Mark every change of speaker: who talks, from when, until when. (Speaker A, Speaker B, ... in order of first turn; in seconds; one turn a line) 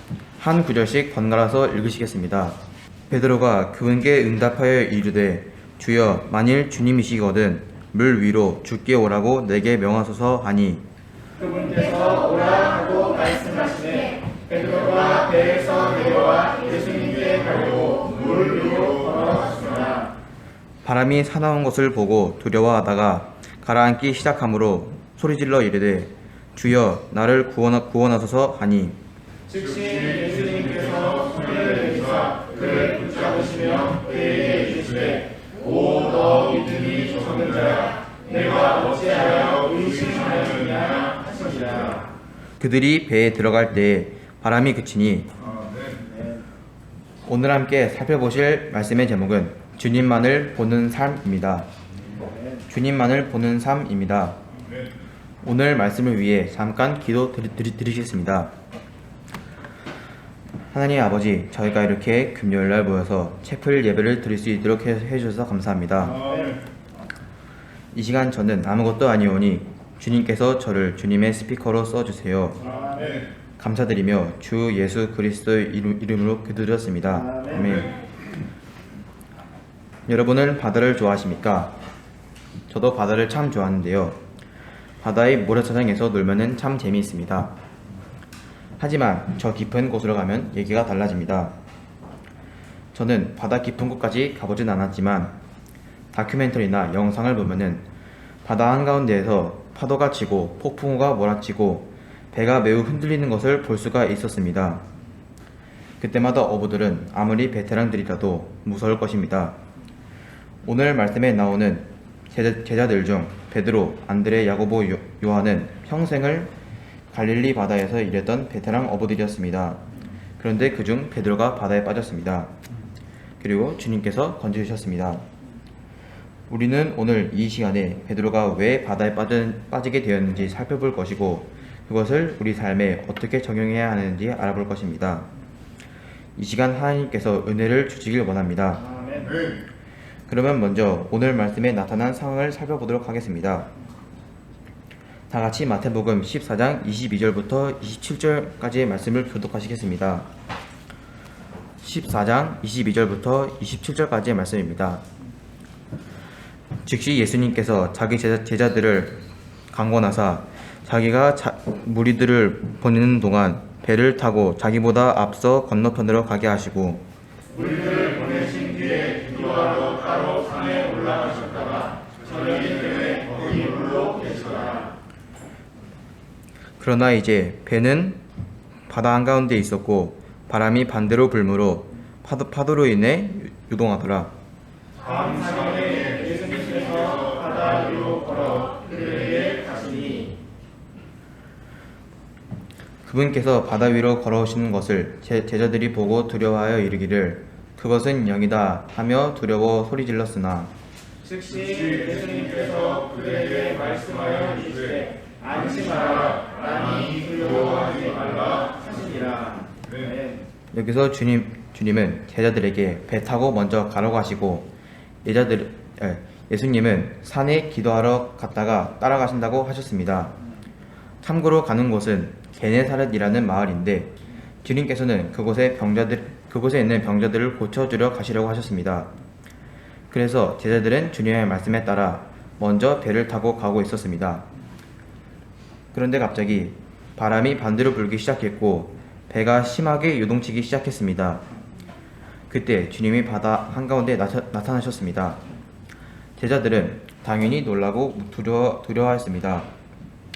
Speaker A: 0.4-2.6
Speaker A: 3.1-10.8
Speaker B: 11.4-20.1
Speaker A: 20.8-29.0
Speaker B: 29.5-42.0
Speaker A: 42.6-45.3
Speaker B: 45.8-46.2
Speaker A: 47.2-51.7
Speaker A: 52.7-54.4
Speaker A: 55.4-58.5
Speaker A: 60.7-66.3
Speaker B: 66.3-66.6
Speaker A: 67.9-72.7
Speaker B: 72.8-73.2
Speaker A: 73.6-78.0
Speaker A: 80.1-81.8
Speaker A: 82.7-84.2
Speaker A: 85.0-87.5
Speaker A: 88.8-91.5
Speaker A: 92.9-95.3
Speaker A: 96.1-97.8
Speaker A: 98.5-104.8
Speaker A: 106.0-109.6
Speaker A: 110.7-116.5
Speaker A: 117.1-119.8
Speaker A: 120.4-122.5
Speaker A: 123.4-125.2
Speaker A: 126.5-135.3
Speaker A: 136.4-138.9
Speaker B: 138.9-139.4
Speaker A: 140.3-143.7
Speaker A: 145.3-150.3
Speaker A: 151.8-155.0
Speaker A: 156.8-159.2
Speaker A: 159.7-167.0
Speaker B: 167.5-174.9
Speaker A: 176.8-178.2
Speaker A: 178.9-184.3
Speaker B: 185.0-190.3
Speaker A: 193.1-200.7
Speaker B: 201.2-210.4
Speaker A: 210.7-214.7
Speaker A: 215.2-220.4
Speaker A: 221.2-224.1
Speaker A: 224.6-229.1
Speaker A: 230.1-234.5
Speaker A: 235.9-241.4
Speaker A: 242.5-245.4
Speaker A: 246.4-249.7